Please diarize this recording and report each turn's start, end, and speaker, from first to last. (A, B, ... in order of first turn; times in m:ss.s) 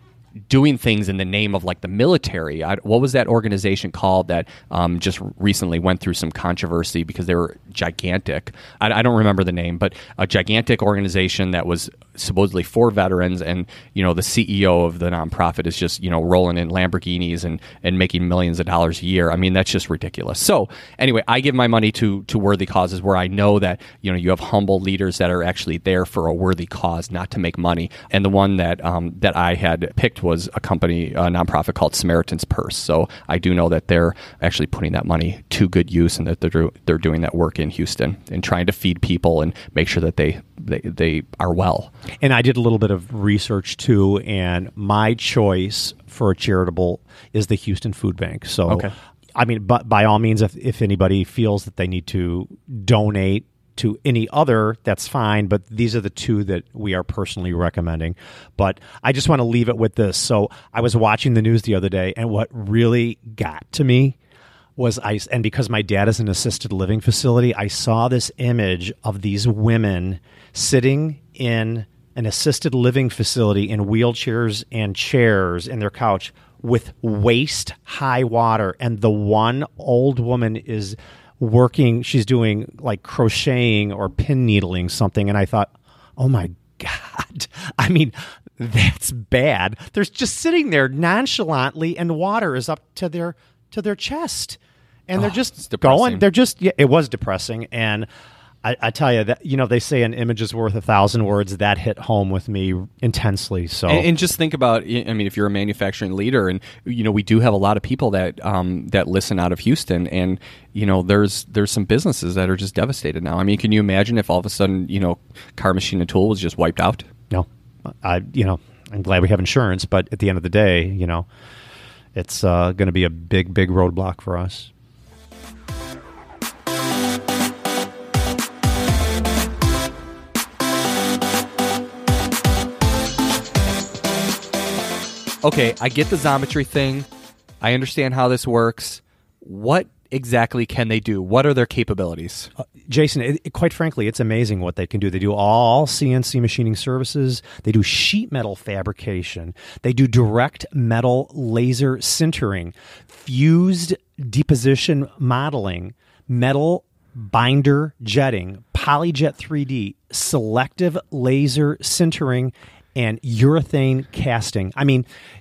0:00.5-0:41.9 A
0:42.2-1:04.2 B
0:48.7-0:48.9 A
1:04.8-1:38.1 B
1:35.2-1:36.3 A
1:38.6-1:44.1 B
1:43.9-1:57.1 A
1:57.3-2:01.3 B
2:02.2-2:04.7 B
2:15.4-2:17.1 A
2:17.6-2:22.5 A
2:22.8-2:45.1 B